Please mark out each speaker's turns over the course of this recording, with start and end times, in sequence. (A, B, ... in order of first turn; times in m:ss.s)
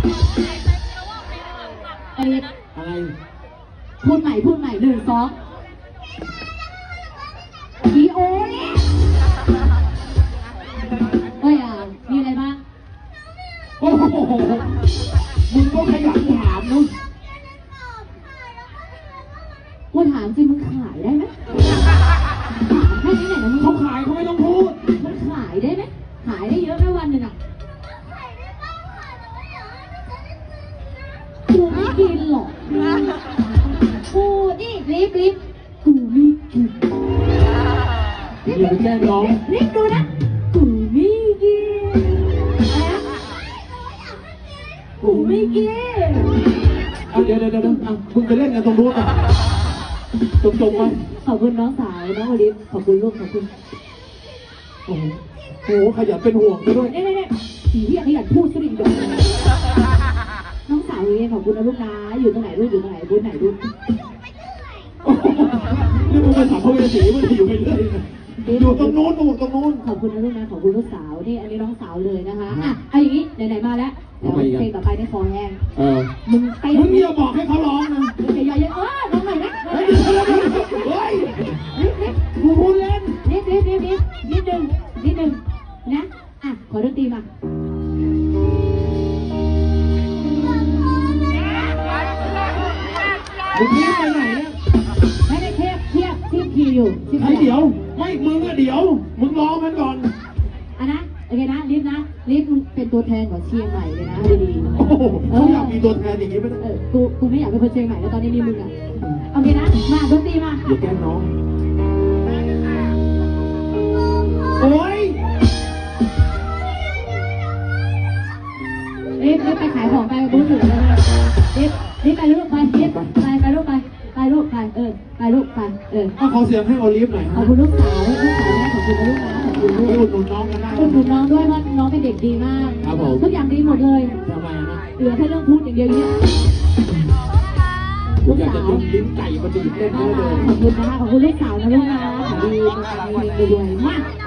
0:02.1-0:02.5 A
0:02.7-0:03.1 B
0:04.0-0:05.3 A
0:07.8-0:08.9 A
0:11.4-0:12.6 A
0:13.8-0:14.6 B
0:15.5-0:16.9 B
0:19.9-0:21.3 A
0:22.6-0:23.8 A
0:23.6-0:24.8 B
0:24.9-0:27.4 A
0:31.5-0:32.6 A
0:34.1-0:36.7 A
0:38.4-0:39.4 B
0:38.4-0:43.0 A
0:45.0-0:45.7 B
0:45.0-0:46.3 A
0:47.1-0:49.2 B
0:47.1-0:47.8 A
0:50.4-0:51.0 B
0:50.7-0:53.5 A
0:54.9-0:56.9 B
0:56.8-0:59.1 A
1:00.6-1:03.6 A
1:05.0-1:09.8 B
1:08.4-1:09.0 A
1:09.8-1:15.6 A
1:12.5-1:12.8 B
1:14.2-1:14.7 B
1:15.7-1:16.1 B
1:16.2-1:17.1 A
1:16.7-1:18.1 B
1:18.2-1:20.9 A
1:19.7-1:21.5 B
1:21.6-1:22.2 A
1:22.3-1:23.2 B
1:23.2-1:27.3 A
1:33.5-1:34.5 B
1:35.2-1:37.5 A
1:37.1-1:40.1 B
1:40.8-1:45.8 A
1:44.7-1:46.6 B
1:46.6-1:48.7 A
1:49.3-1:50.6 A
1:50.6-1:51.3 B
1:54.6-1:55.2 B
1:59.2-2:01.0 A
2:01.5-2:06.1 A
2:02.7-2:03.1 B
2:06.2-2:07.5 B
2:07.3-2:10.0 A
2:09.6-2:11.0 B
2:10.7-2:14.2 A
2:12.8-2:13.3 B
2:14.2-2:14.8 B
2:15.0-2:16.2 A
2:18.2-2:18.8 A
2:18.2-2:20.5 B
2:19.8-2:24.0 A